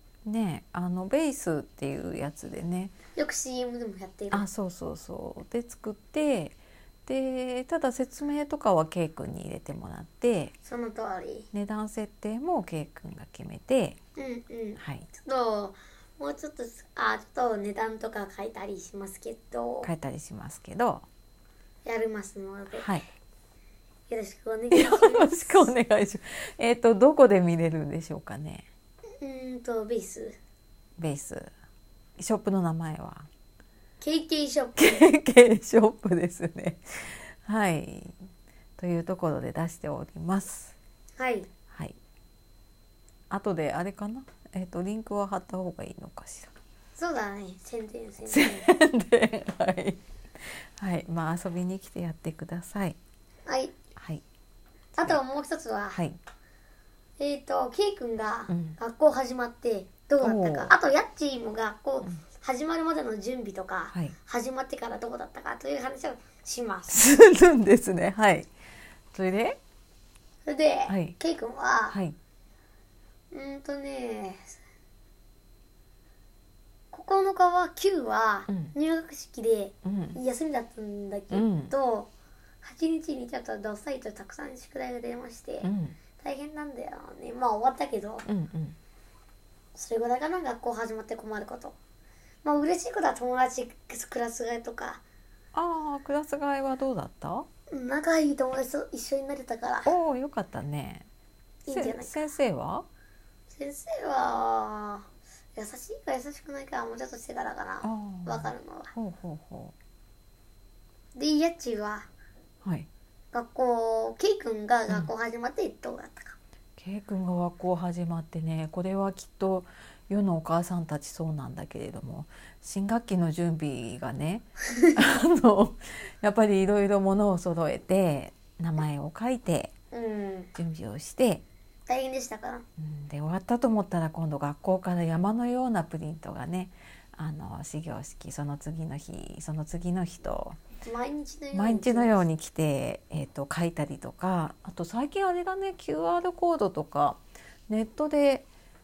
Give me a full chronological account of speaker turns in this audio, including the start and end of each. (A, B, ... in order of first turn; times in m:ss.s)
0:00.2-0:02.9 A
0:03.1-0:04.5 B
0:04.3-0:10.5 A
0:10.6-0:11.5 B
0:11.5-0:14.0 A
0:14.2-0:19.9 B
0:14.8-0:15.1 A
0:19.8-0:21.0 A
0:21.8-0:23.0 B
0:22.7-0:23.0 A
0:24.1-0:25.7 B
0:24.7-0:28.7 A
0:29.2-0:30.4 B
0:31.0-0:31.5 A
0:32.2-0:33.3 A
0:34.0-0:35.0 B
0:34.8-0:38.2 A
0:38.8-0:40.8 A
0:41.2-0:41.5 B
0:41.7-0:42.0 A
0:43.3-0:46.5 A
0:47.0-0:48.7 B
0:48.3-0:53.0 A
0:53.4-0:53.7 B
0:54.0-0:54.2 A
0:55.0-0:56.0 B
0:55.9-0:56.2 A
0:57.2-1:07.0 B
0:58.5-0:58.8 A
1:00.2-1:00.7 A
1:06.9-1:08.5 A
1:09.1-1:09.6 A
1:10.4-1:12.0 B
1:10.9-1:11.2 A
1:11.9-1:12.2 A
1:13.3-1:14.6 B
1:16.9-1:22.1 B
1:19.8-1:20.2 A
1:21.3-1:21.7 A
1:22.6-1:28.3 B
1:25.6-1:26.0 A
1:28.2-1:28.8 A
1:29.7-1:31.8 B
1:32.4-1:35.0 B
1:35.5-1:37.5 A
1:37.7-1:39.9 B
1:39.8-1:41.1 A
1:41.6-1:42.3 B
1:41.7-1:42.8 A
1:43.5-1:48.9 B
1:47.8-1:49.7 A
1:51.1-1:52.1 B
1:52.6-1:52.9 A
1:53.3-1:56.4 B
1:56.8-2:09.7 A
2:09.9-2:10.5 B
2:10.6-2:11.4 A
2:11.9-2:12.6 B
2:12.8-2:20.6 A
2:20.8-2:22.2 B
2:21.5-2:28.5 A